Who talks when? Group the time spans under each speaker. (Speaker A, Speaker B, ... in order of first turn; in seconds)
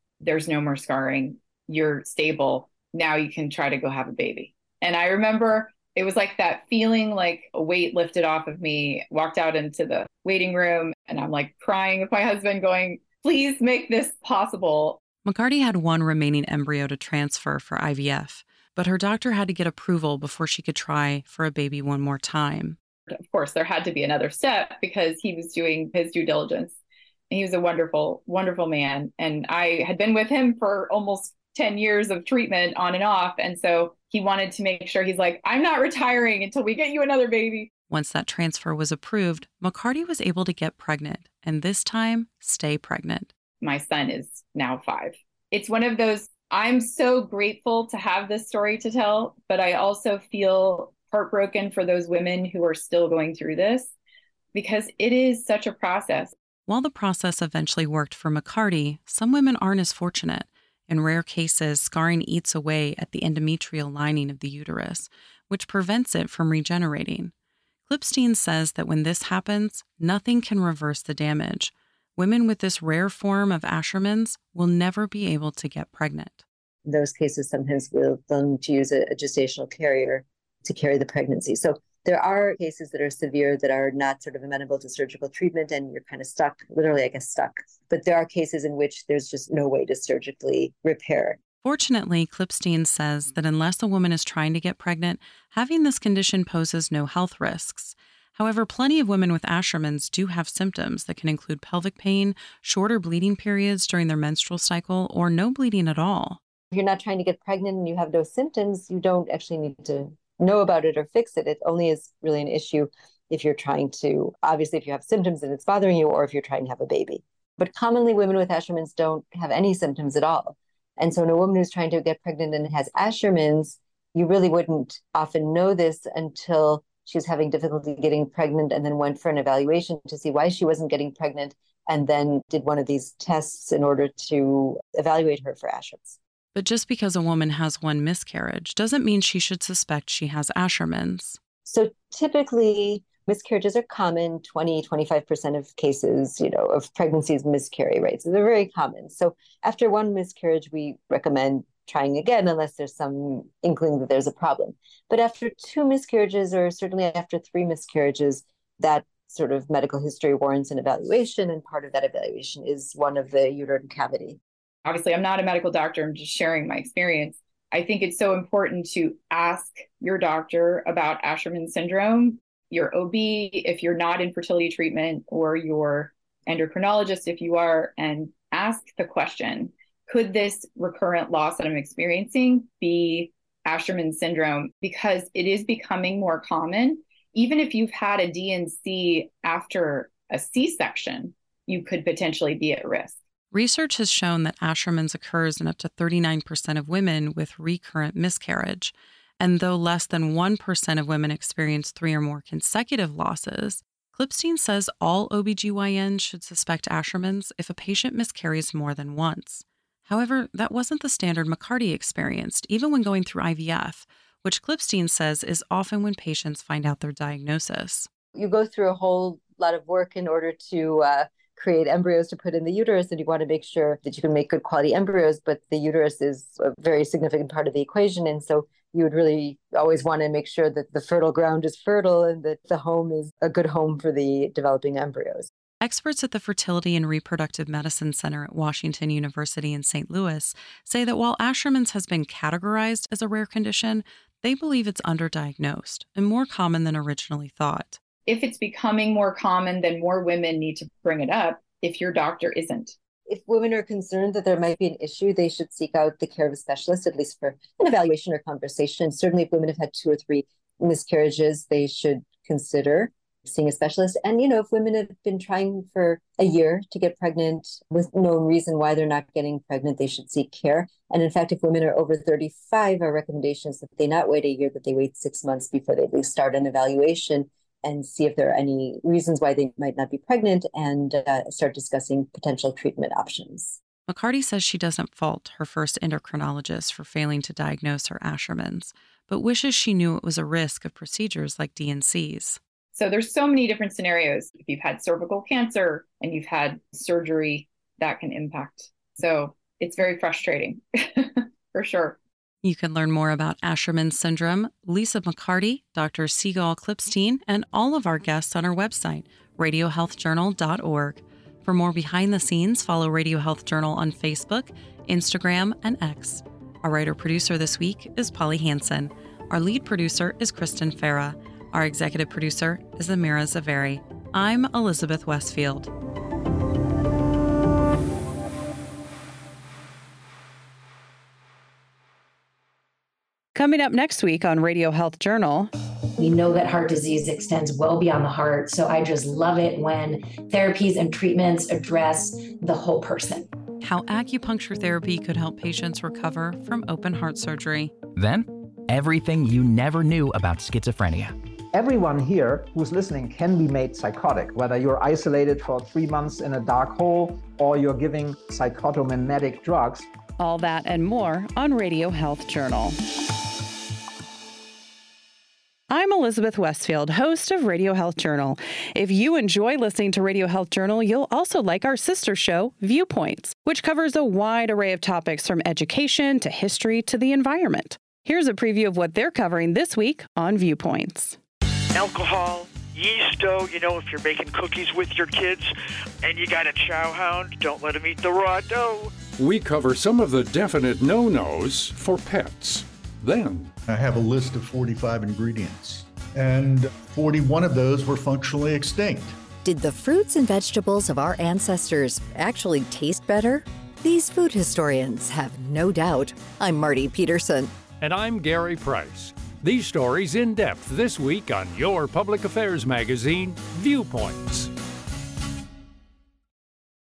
Speaker A: 0.2-15.0, 23.1-26.8, 27.3-37.7, 43.6-53.9, 54.5-56.3, 164.8-193.2, 248.3-252.9, 292.9-302.2
Speaker B: 15.2-22.8, 37.9-43.3, 56.7-67.3, 67.8-76.4, 91.6-106.4, 136.5-141.4, 193.5-218.1, 235.8-248.0, 284.1-292.6, 302.6-325.9, 333.5-335.7, 343.8-347.9, 360.4-363.0, 365.9-381.4
Speaker C: 76.8-91.4, 106.7-136.2, 141.6-164.4, 218.3-235.5, 253.3-283.8
Speaker D: 336.2-343.5
Speaker E: 348.1-351.3
Speaker F: 351.7-360.1
Speaker G: 381.9-389.1
Speaker H: 389.4-393.7, 408.0-414.7
Speaker I: 393.9-399.4
Speaker J: 399.6-407.7